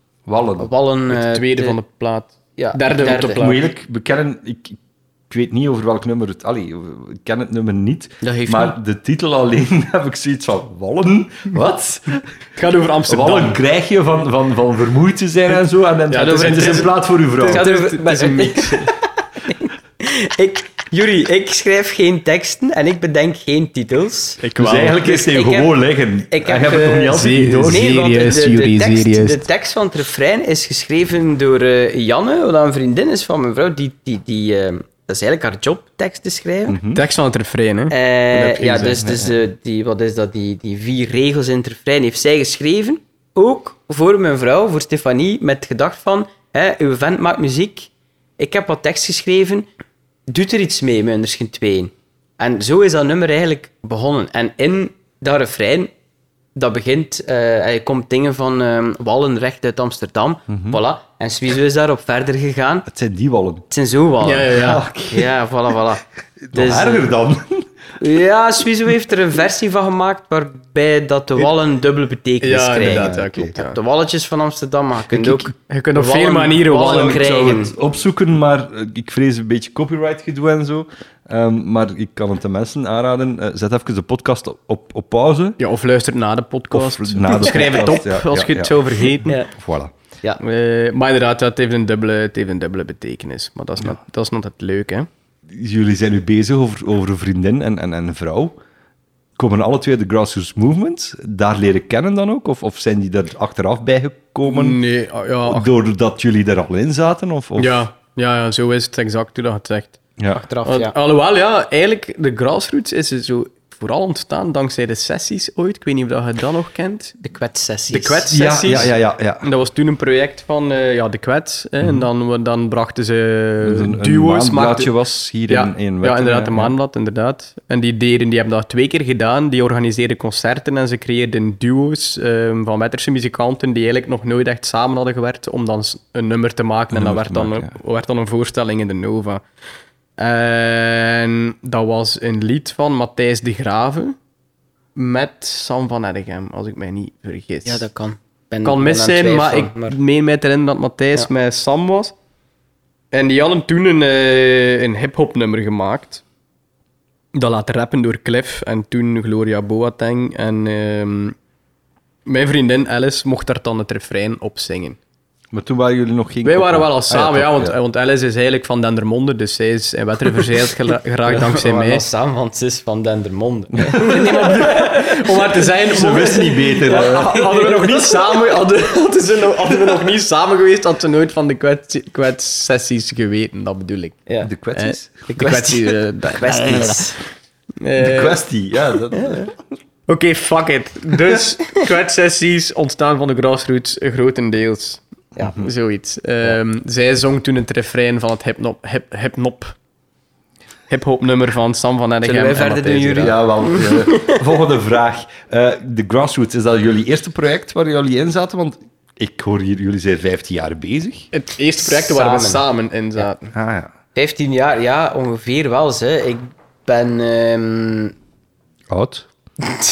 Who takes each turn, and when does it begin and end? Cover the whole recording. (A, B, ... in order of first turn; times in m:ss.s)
0:00.3-0:00.7 A
0:00.6-0:01.8 B
0:01.1-0:03.6 C
0:02.6-0:03.4 B
0:03.3-0:04.8 A
0:05.3-0:12.2 A
0:08.2-0:08.8 B
0:12.6-0:13.6 C
0:13.1-0:17.6 A
0:16.1-0:18.9 C
0:16.1-0:25.7 B
0:24.4-0:25.0 C
0:24.6-0:28.0 A
0:26.3-0:36.8 B
0:27.1-0:29.4 C
0:36.7-0:37.0 A
0:36.9-0:39.0 C
0:37.9-0:49.7 B
0:39.0-0:39.3 A
0:50.3-0:55.9 B
0:56.6-1:02.9 B
1:00.5-1:00.8 A
1:02.9-1:03.6 A
1:03.7-1:04.6 B
1:04.2-1:04.8 C
1:04.5-1:05.3 A
1:05.1-1:07.1 B
1:06.5-1:07.6 A
1:08.0-1:17.7 B
1:12.4-1:13.8 C
1:12.8-1:13.5 A
1:15.1-1:17.5 C
1:16.8-1:25.6 A
1:25.6-1:29.4 C
1:26.7-1:28.8 A
1:29.6-1:29.9 A
1:30.4-1:35.1 C
1:35.5-1:38.6 A
1:39.4-1:44.8 A
1:44.5-1:45.7 C
1:45.4-1:47.8 A
1:47.6-1:50.0 C
1:50.2-1:50.4 A
1:50.3-1:50.9 B
1:50.6-1:57.2 C
1:57.2-1:58.3 B
1:57.9-2:04.9 C
1:58.3-1:59.5 A
2:03.6-2:06.7 A
2:05.5-2:19.4 C
2:16.9-2:17.7 A
2:20.2-2:24.2 C
2:24.9-2:27.8 C
2:27.6-2:30.0 B
2:28.6-2:32.1 C
2:33.1-2:36.2 C
2:37.3-2:41.4 C
2:42.2-2:45.0 C
2:45.5-2:47.8 A
2:46.4-2:52.0 C
2:51.2-2:55.6 B
2:53.8-2:54.5 A
2:54.0-3:07.0 C
2:55.9-2:58.1 A
2:56.9-2:57.8 B
3:04.4-3:05.2 A
3:05.4-3:07.2 B
3:07.8-3:08.4 C
3:08.0-3:09.5 A
3:09.1-3:09.5 C
3:10.1-3:19.8 C
3:15.4-3:15.7 A
3:20.9-3:23.4 C
3:22.2-3:24.4 B
3:23.2-3:31.3 A
3:31.3-3:33.5 C
3:31.8-3:32.6 B
3:33.5-3:33.9 A
3:34.1-3:38.1 B
3:38.9-3:39.3 A